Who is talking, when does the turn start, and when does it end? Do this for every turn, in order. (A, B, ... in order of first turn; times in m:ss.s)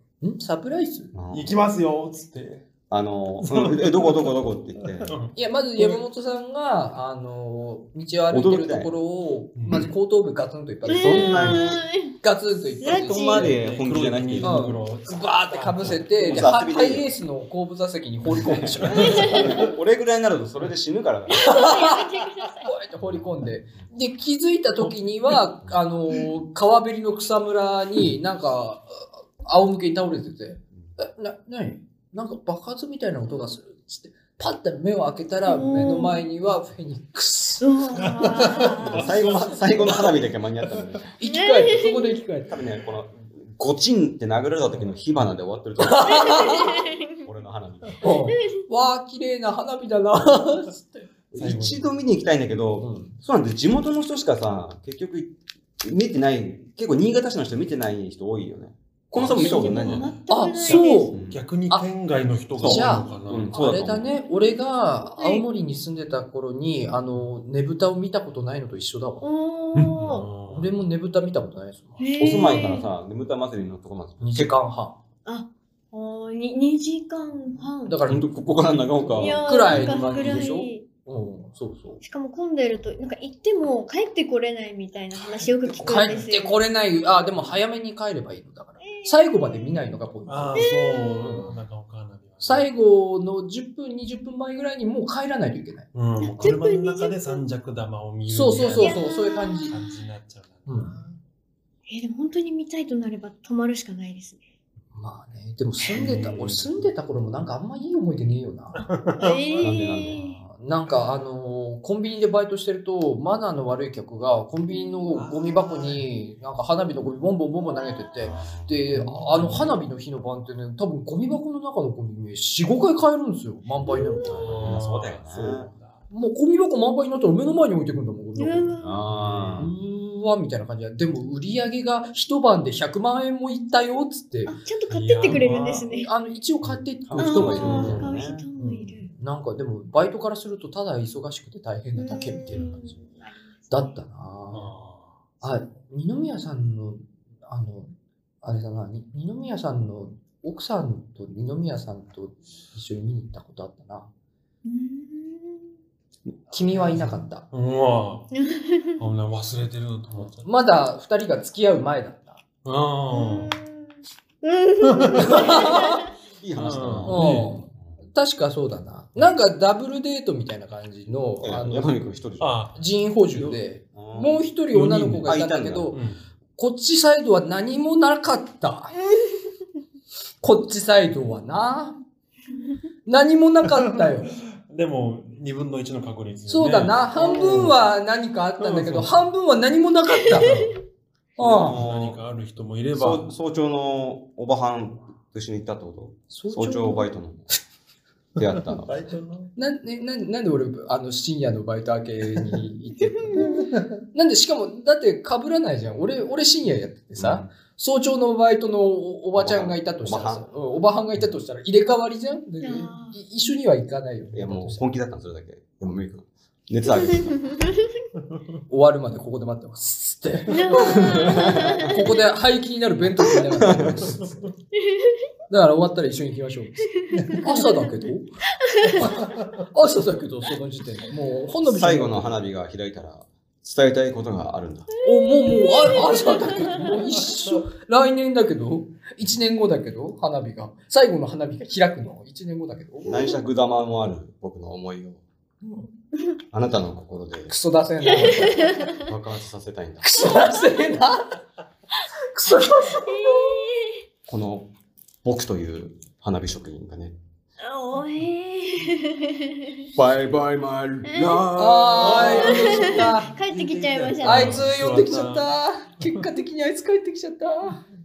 0:00.2-0:01.1 A
0:01.1-0:01.6 B
0:01.3-0:02.7 C
0:02.9-0:05.1 B
0:03.4-0:06.0 C
0:05.4-0:11.6 A
0:08.3-0:08.9 B
0:09.6-0:09.9 C
0:10.8-0:11.8 B
0:10.9-0:12.1 D
0:12.2-0:13.5 A
0:12.8-0:13.5 D
0:12.9-0:14.6 B
0:13.2-0:16.6 C
0:14.4-0:19.7 A
0:16.2-0:17.1 B
0:18.4-0:21.5 B
0:18.6-0:19.7 C
0:19.0-0:19.7 D
0:21.3-0:22.8 D
0:21.3-0:22.0 A
0:22.6-0:37.7 A
0:24.8-0:25.4 C
0:35.5-0:36.2 D
0:37.6-0:40.1 C
0:37.9-0:39.1 D
0:38.8-0:41.1 B
0:41.2-0:42.5 A
0:41.2-0:42.2 D
0:42.5-0:46.5 B
0:44.7-0:45.0 C
0:45.8-0:46.8 A
0:46.0-0:47.2 D
0:47.2-0:48.0 B
0:48.0-0:51.1 A
0:48.1-0:48.6 D
0:51.3-1:00.1 B
0:51.3-0:51.9 C
0:52.8-0:53.2 A
0:59.2-1:00.1 C
0:59.2-1:01.1 D
1:00.3-1:01.9 A
1:00.7-1:03.6 C
1:01.1-1:01.4 B
1:02.6-1:04.1 B
1:02.6-1:09.3 A
1:05.2-1:05.4 D
1:09.2-1:10.2 D
1:10.0-1:10.8 C
1:10.5-1:12.1 A
1:12.0-1:12.9 D
1:12.2-1:14.6 B
1:14.2-1:15.0 A
1:15.3-1:18.0 D
1:17.9-1:18.3 A
1:18.0-1:20.5 B
1:19.1-1:20.9 D
1:19.2-1:22.0 A
1:22.0-1:26.7 D
1:25.7-1:26.2 C
1:25.8-1:31.6 A
1:28.8-1:30.0 D
1:30.3-1:32.7 C
1:30.6-1:31.5 D
1:32.4-1:35.9 A
1:35.9-1:39.0 C
1:36.2-1:37.4 D
1:38.3-1:39.8 A
1:38.6-1:40.0 D
1:39.7-1:41.2 C
1:40.7-1:41.0 A
1:41.9-1:44.4 D
1:44.9-1:48.9 A
1:45.9-1:46.9 C
1:48.8-1:49.7 C
1:49.2-1:50.4 D
1:49.6-1:50.4 B
1:50.4-2:04.6 A
1:55.1-1:56.0 C
1:57.7-1:58.1 D
1:58.2-1:58.8 B
1:58.9-1:59.8 C
2:03.8-2:04.4 D
2:04.3-2:05.7 B
2:04.4-2:06.0 C
2:06.1-2:08.8 A
2:08.4-2:09.0 D
2:08.8-2:09.7 B
2:09.1-2:09.7 C
2:09.6-2:14.6 A
2:14.5-2:16.1 D
2:14.9-2:15.9 C
2:15.3-2:18.1 A
2:17.1-2:18.5 B
2:17.2-2:19.1 D
2:17.6-2:18.2 C
2:18.6-2:22.9 A
2:22.0-2:23.9 D
2:23.7-2:24.7 A
2:24.5-2:25.4 C
2:25.4-2:34.1 A
2:34.6-2:35.7 D
2:36.5-2:37.5 A
2:36.8-2:38.3 C
2:38.3-2:39.0 D
2:39.0-2:40.5 C
2:40.4-2:42.4 A
2:42.6-2:43.6 C
2:43.1-2:46.1 D
2:44.8-2:45.4 C
2:45.1-2:46.1 A
2:46.4-2:47.2 B
2:46.5-2:47.6 C
2:47.0-2:51.9 A
2:51.4-2:52.5 B
2:52.4-2:53.6 C
2:52.8-2:56.0 A
2:54.0-2:54.4 B
2:54.7-2:55.3 C
2:55.2-2:55.9 B
2:55.9-2:56.2 C
2:56.6-2:59.0 A
3:00.4-3:02.0 A
3:03.1-3:04.3 A
3:03.8-3:07.8 C
3:06.5-3:10.8 A
3:08.6-3:09.3 C
3:10.4-3:10.7 C
3:11.4-3:11.8 A
3:11.4-3:12.2 B
3:11.6-3:13.3 C
3:12.9-3:17.5 B
3:16.3-3:17.1 A
3:18.4-3:18.9 B
3:18.4-3:19.5 C
3:19.6-3:34.8 A
3:23.2-3:23.6 D
3:23.4-3:24.0 C
3:27.2-3:27.5 B
3:29.4-3:30.5 B
3:32.6-3:33.2 D
3:34.3-3:37.4 B
3:36.9-3:37.8 D
3:38.7-3:44.5 A
3:40.5-3:42.0 D
3:41.0-3:41.8 B
3:43.4-3:43.9 B
3:44.2-3:44.5 C
3:44.8-3:45.2 D
3:45.5-3:48.3 A
3:47.0-3:47.7 D
3:48.6-3:49.1 D
3:48.9-3:52.4 A
3:49.0-3:49.6 C
3:51.6-3:54.9 B
3:55.0-3:56.9 D
3:55.0-4:03.2 A
3:56.8-3:57.6 C
4:03.1-4:05.2 B
4:05.6-4:05.9 A
4:06.5-4:07.5 B
4:07.5-4:08.9 A
4:08.2-4:08.9 D
4:09.0-4:10.3 B
4:10.0-4:11.4 A
4:12.3-4:13.6 A
4:12.9-4:14.0 D
4:14.3-4:14.7 B
4:15.2-4:17.2 B
4:17.6-4:19.9 D
4:20.0-4:22.6 E
4:21.0-4:21.4 D
4:21.6-4:23.3 A
4:22.1-4:26.3 C
4:22.1-4:24.7 D
4:24.2-4:27.8 A